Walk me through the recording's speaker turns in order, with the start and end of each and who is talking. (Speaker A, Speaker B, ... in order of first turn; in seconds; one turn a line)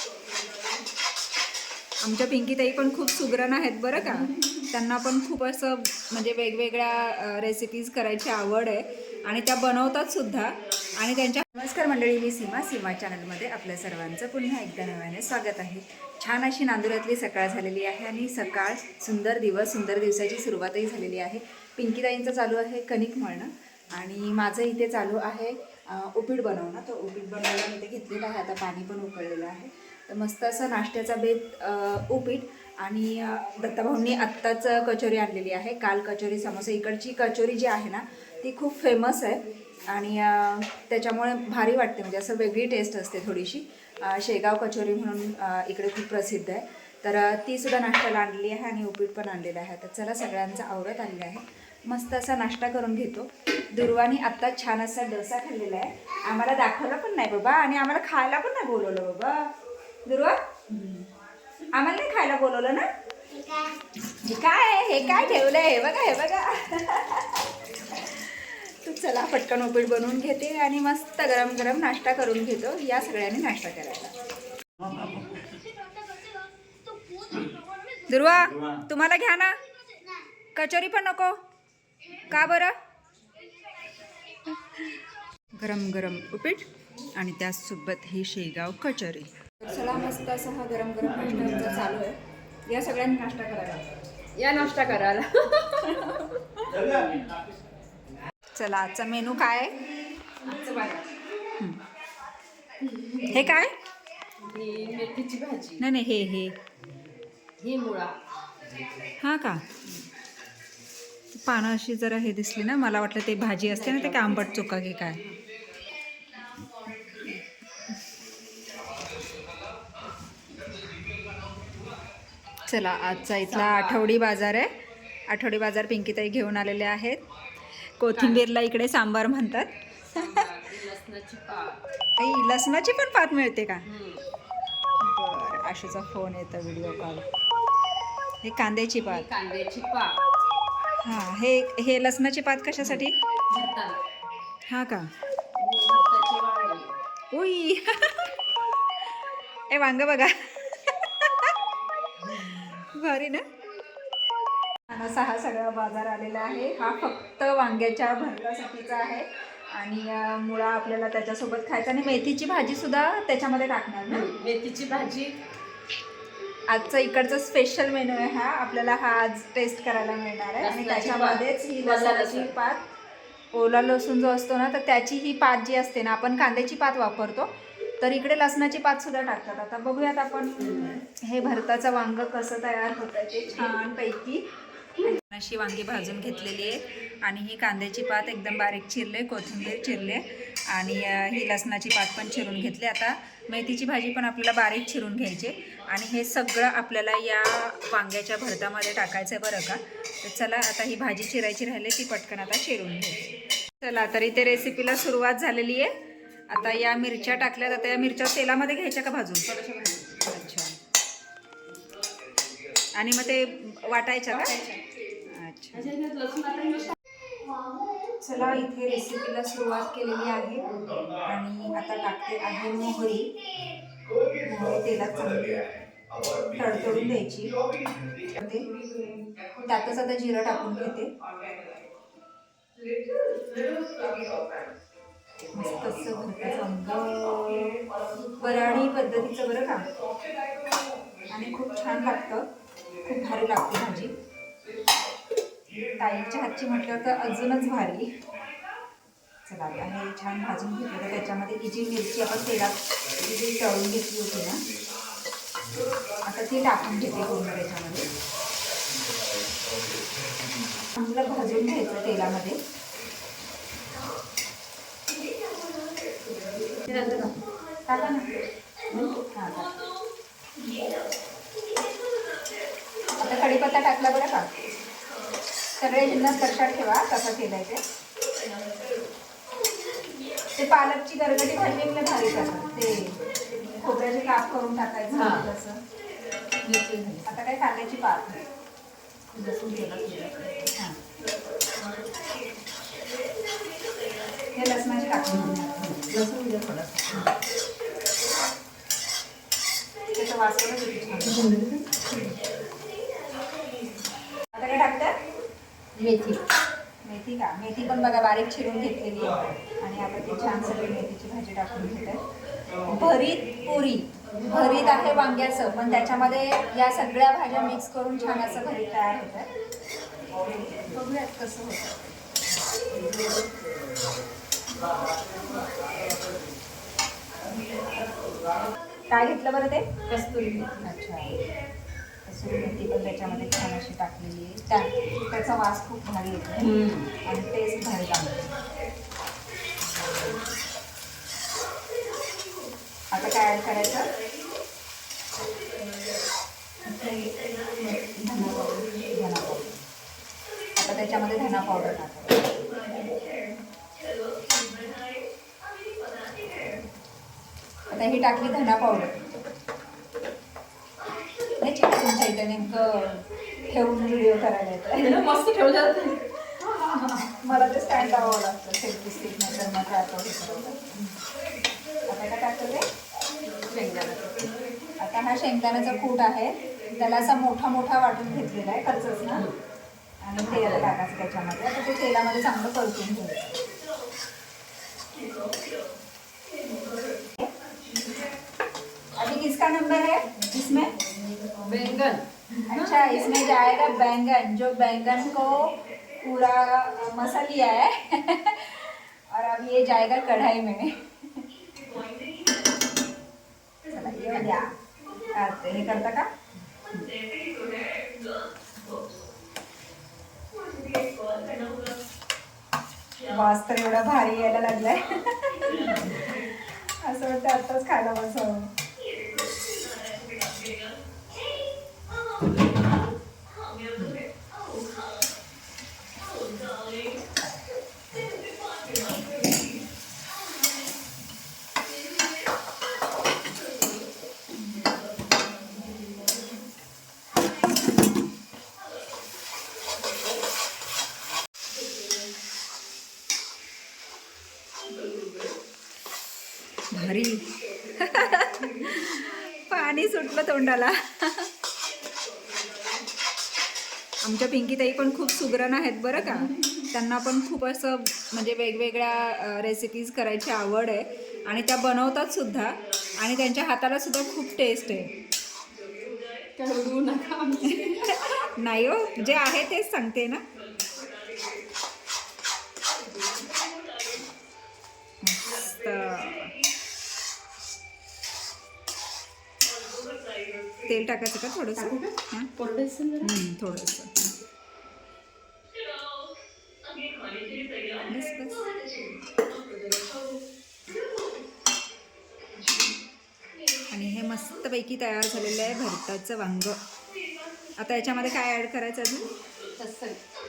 Speaker A: 2.0-59.5
Speaker B: 4.1-4.5
Speaker A: 60.1-61.1
Speaker A: 61.7-62.9
Speaker A: 64.1-74.1
Speaker A: 78.1-79.6
Speaker A: 80.5-81.4
Speaker A: 82.2-82.8
Speaker A: 84.5-85.0
Speaker A: 85.6-94.0
Speaker B: 91.2-91.7
Speaker B: 94.4-96.2
Speaker A: 95.8-96.8
Speaker B: 96.8-97.2
Speaker A: 98.5-99.9
Speaker B: 100.2-101.1
Speaker B: 102.8-103.5
Speaker A: 103.3-103.7
Speaker B: 104.4-105.8
Speaker A: 105.8-106.6
Speaker B: 107.6-108.2
Speaker A: 109.2-110.0
Speaker A: 111.3-115.2
Speaker B: 113.7-114.6
Speaker A: 116.5-117.4
Speaker A: 122.6-124.7
Speaker B: 123.5-124.1
Speaker A: 125.3-127.2
Speaker A: 128.0-130.4
Speaker B: 128.1-128.5
Speaker B: 130.1-131.8
Speaker A: 132.2-133.9
Speaker B: 133.9-134.2
Speaker A: 135.0-137.2
Speaker A: 138.4-139.3
Speaker B: 139.1-140.2
Speaker A: 141.0-143.2
Speaker B: 142.8-144.0
Speaker A: 144.7-145.1
Speaker B: 145.6-146.9
Speaker A: 147.3-148.4
Speaker A: 149.7-151.6
Speaker A: 152.1-153.4
Speaker A: 154.9-164.3
Speaker B: 164.1-165.4
Speaker A: 166.7-172.8
Speaker B: 170.6-172.5
Speaker A: 173.5-184.4
Speaker B: 180.6-181.0
Speaker A: 185.0-203.3
Speaker A: 203.8-205.9
Speaker A: 206.5-209.5
Speaker B: 209.5-210.3
Speaker A: 210.3-210.8
Speaker A: 213.0-214.6
Speaker B: 214.3-214.8
Speaker A: 215.3-215.9
Speaker B: 215.7-217.0
Speaker A: 218.2-223.3
Speaker A: 224.4-225.7
Speaker A: 226.5-227.6
Speaker A: 228.4-228.7
Speaker B: 229.0-229.3
Speaker A: 229.6-231.1
Speaker B: 233.4-234.6
Speaker A: 235.5-237.8
Speaker A: 238.4-239.9
Speaker A: 241.3-242.5
Speaker A: 243.0-244.1
Speaker A: 246.0-248.1
Speaker A: 249.5-254.7
Speaker A: 256.2-258.1
Speaker A: 261.0-262.6
Speaker B: 266.5-267.4
Speaker A: 267.9-268.4
Speaker B: 268.9-269.2
Speaker A: 269.3-269.8
Speaker A: 273.1-274.5
Speaker A: 275.8-277.8
Speaker B: 275.9-276.5
Speaker A: 280.6-285.8
Speaker B: 285.1-285.5
Speaker B: 286.6-287.3
Speaker A: 287.2-288.4
Speaker B: 289.3-290.7
Speaker A: 294.5-296.0
Speaker B: 295.3-297.3
Speaker A: 300.1-301.5
Speaker B: 301.2-302.1
Speaker A: 304.5-305.2
Speaker B: 306.0-306.4
Speaker A: 307.0-312.3
Speaker A: 312.9-319.5
Speaker A: 320.4-322.4
Speaker A: 329.1-329.9
Speaker B: 330.1-330.8
Speaker A: 330.8-331.4
Speaker A: 332.3-336.7
Speaker B: 336.6-337.1
Speaker A: 337.3-338.4
Speaker A: 343.1-344.1
Speaker A: 346.9-349.7
Speaker A: 350.8-352.6
Speaker A: 357.9-359.2
Speaker A: 361.6-365.4
Speaker B: 364.9-366.2
Speaker A: 366.7-371.0
Speaker A: 372.1-372.9
Speaker B: 373.6-374.5
Speaker A: 375.0-379.4
Speaker A: 380.2-383.6
Speaker B: 380.5-380.9
Speaker A: 389.2-390.9
Speaker B: 391.6-393.5
Speaker A: 392.7-401.4
Speaker A: 403.9-404.7
Speaker A: 405.3-406.3
Speaker A: 413.2-418.7
Speaker A: 424.0-424.2
Speaker A: 446.9-451.5
Speaker B: 448.3-448.6
Speaker A: 454.2-465.1
Speaker B: 456.3-456.6
Speaker B: 466.6-468.2
Speaker A: 467.7-470.4
Speaker A: 475.2-476.5
Speaker A: 480.9-482.5
Speaker B: 481.8-483.4
Speaker A: 483.2-484.2
Speaker A: 488.0-488.7
Speaker A: 493.9-496.8
Speaker A: 497.8-499.3
Speaker B: 499.8-500.2